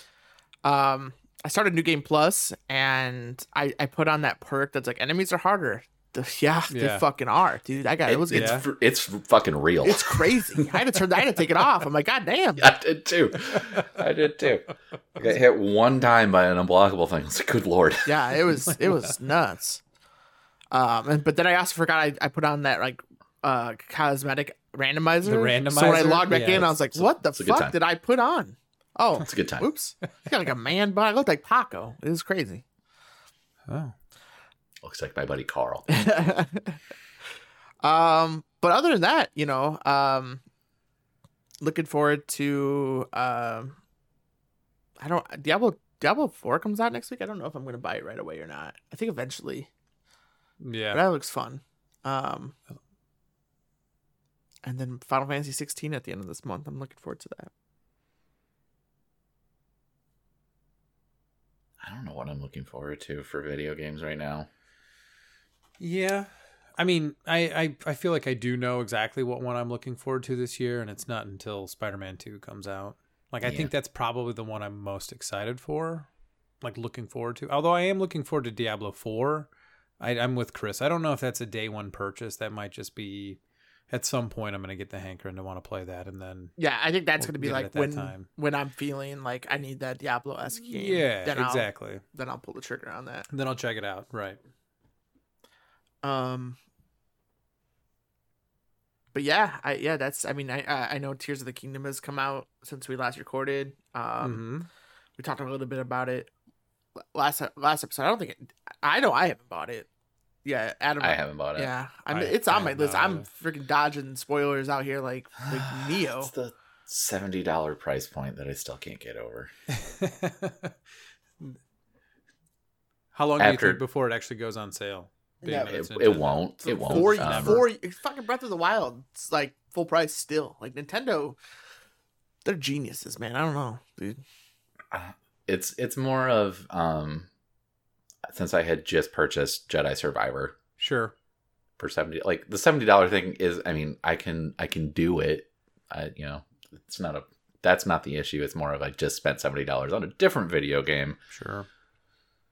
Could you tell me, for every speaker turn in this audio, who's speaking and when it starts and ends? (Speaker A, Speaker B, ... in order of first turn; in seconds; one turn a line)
Speaker A: 0.6-8.7
Speaker B: 6.7-7.0
Speaker C: 8.1-10.9
Speaker B: 8.3-8.7
Speaker A: 9.8-12.7
Speaker C: 12.6-18.2
Speaker A: 18.1-19.8
Speaker A: 20.7-32.6
Speaker B: 25.2-26.7
Speaker C: 26.8-27.8
Speaker C: 29.2-29.7
Speaker B: 33.7-34.0
Speaker C: 34.8-36.0
Speaker A: 35.9-36.8
Speaker A: 37.8-40.4
Speaker A: 41.6-43.8
Speaker A: 45.0-49.7
Speaker B: 50.6-51.0
Speaker A: 50.9-52.5
Speaker A: 54.6-57.5
Speaker C: 61.8-64.5
Speaker B: 65.8-76.1
Speaker C: 73.4-73.7
Speaker B: 76.6-79.5
Speaker B: 80.0-86.5
Speaker A: 86.6-93.3
Speaker B: 87.2-88.3
Speaker B: 90.6-92.0
Speaker B: 93.3-94.4
Speaker A: 96.0-96.6
Speaker A: 99.1-104.5
Speaker B: 104.2-104.7
Speaker A: 105.2-106.3
Speaker A: 107.1-109.9
Speaker A: 110.5-116.3
Speaker C: 111.0-111.7
Speaker B: 112.1-113.3
Speaker C: 115.5-119.5
Speaker B: 119.7-120.7
Speaker B: 123.1-127.7
Speaker C: 123.4-123.8
Speaker A: 125.4-125.8
Speaker C: 125.6-127.7
Speaker A: 126.6-131.4
Speaker A: 132.4-134.2
Speaker C: 134.9-137.3
Speaker C: 138.3-140.6
Speaker B: 140.8-141.1
Speaker C: 141.8-151.2
Speaker B: 151.3-151.7